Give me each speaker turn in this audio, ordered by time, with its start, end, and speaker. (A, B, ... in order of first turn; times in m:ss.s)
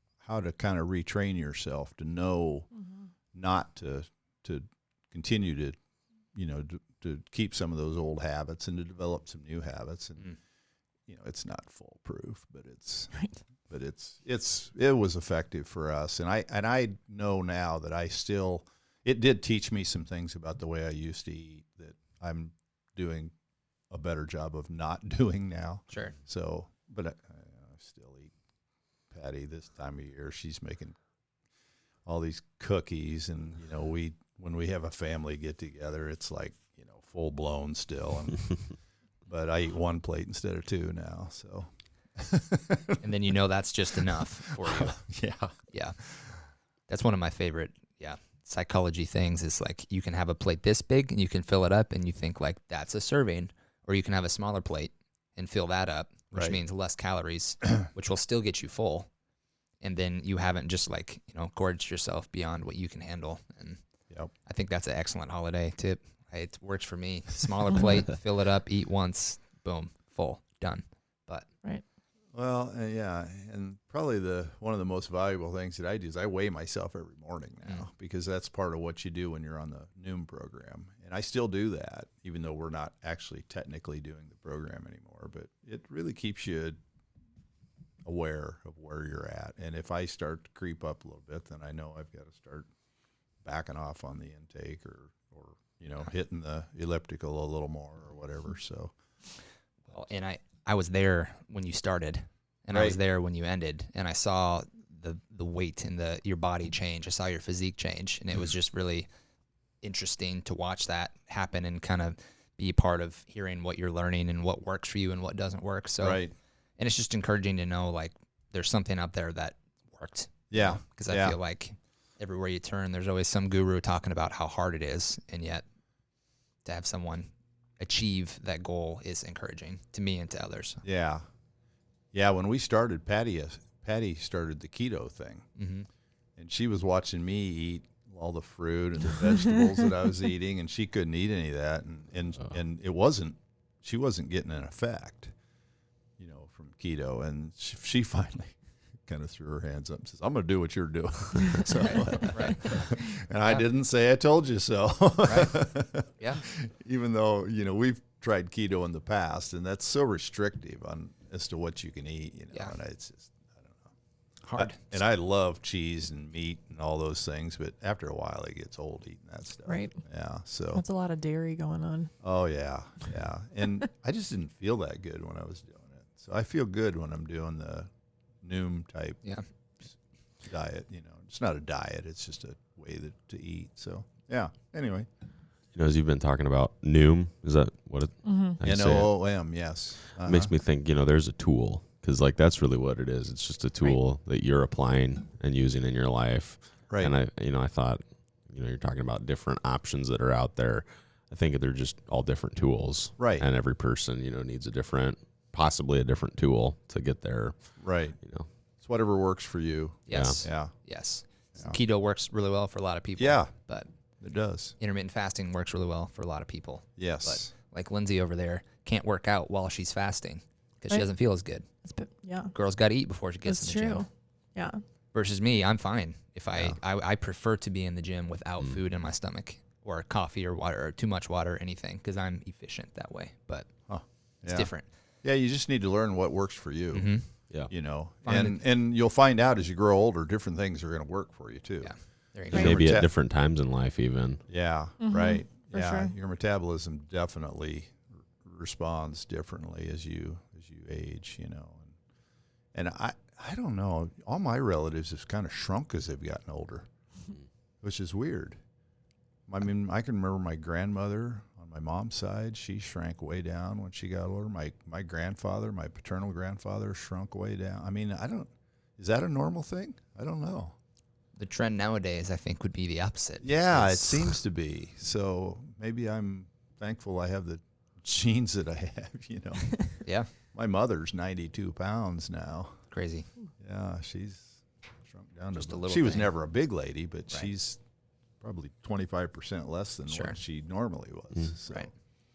0:00.2-0:02.7 A
0:03.3-0:05.8 A
0:06.4-0:10.4 A
0:11.1-0:23.3 A
0:23.9-0:28.3 A
0:25.9-0:26.2 B
0:29.1-0:31.0 A
0:32.1-0:38.7 A
0:39.3-0:43.0 A
0:43.0-0:45.0 B
0:44.6-0:45.5 A
0:45.7-0:46.0 B
0:46.9-0:59.1 B
0:59.8-1:03.8 B
1:04.4-1:11.5 B
1:12.3-1:26.8 A
1:28.0-1:32.7 A
1:33.4-1:39.0 A
1:39.9-1:49.1 B
1:42.7-1:43.0 A
1:49.8-1:56.2 B
1:56.0-1:56.3 A
1:56.8-2:05.6 B
2:00.5-2:01.4 A
2:06.6-2:10.8 B
2:10.8-2:11.3 A
2:12.1-2:15.5 A
2:15.6-2:15.9 B
2:16.4-2:25.3 A
2:26.2-2:43.9 A
2:32.3-2:32.9 B
2:35.3-2:35.6 B
2:36.2-2:36.4 B
2:44.4-2:45.0 B
2:44.6-2:50.8 A
2:49.7-2:50.0 C
2:50.7-2:52.1 C
2:52.2-2:57.9 A
2:58.4-2:59.3 A
2:59.8-3:05.1 A
3:05.7-3:09.5 D
3:08.2-3:08.6 C
3:08.6-3:10.5 A
3:10.2-3:28.5 D
3:23.2-3:23.5 A
3:27.8-3:28.2 A
3:28.8-3:30.7 A
3:30.1-3:33.9 B
3:30.1-3:30.5 D
3:33.2-3:33.5 A
3:34.2-3:34.8 A
3:34.8-3:41.7 B
3:37.0-3:37.5 A
3:41.8-3:42.5 C
3:42.5-3:44.0 B
3:43.4-3:44.8 C
3:45.1-3:53.7 B
3:53.9-3:54.7 A
3:54.4-3:54.9 B
3:55.2-3:57.1 A
3:56.9-3:57.3 B
3:57.7-4:01.9 A
3:58.2-3:58.6 B
4:01.8-4:02.7 B
4:02.5-4:03.1 A
4:02.5-4:04.4 D
4:02.5-4:02.8 C
4:04.5-4:12.0 A
4:05.0-4:06.1 C
4:12.7-4:16.9 A
4:17.8-4:18.6 A
4:19.5-4:30.8 A
4:31.4-4:34.4 B
4:33.4-4:42.8 A
4:40.0-4:40.3 B
4:42.9-4:43.3 B
4:43.6-4:47.8 A
4:45.5-4:46.4 B
4:48.4-4:51.9 A
4:50.1-4:50.4 B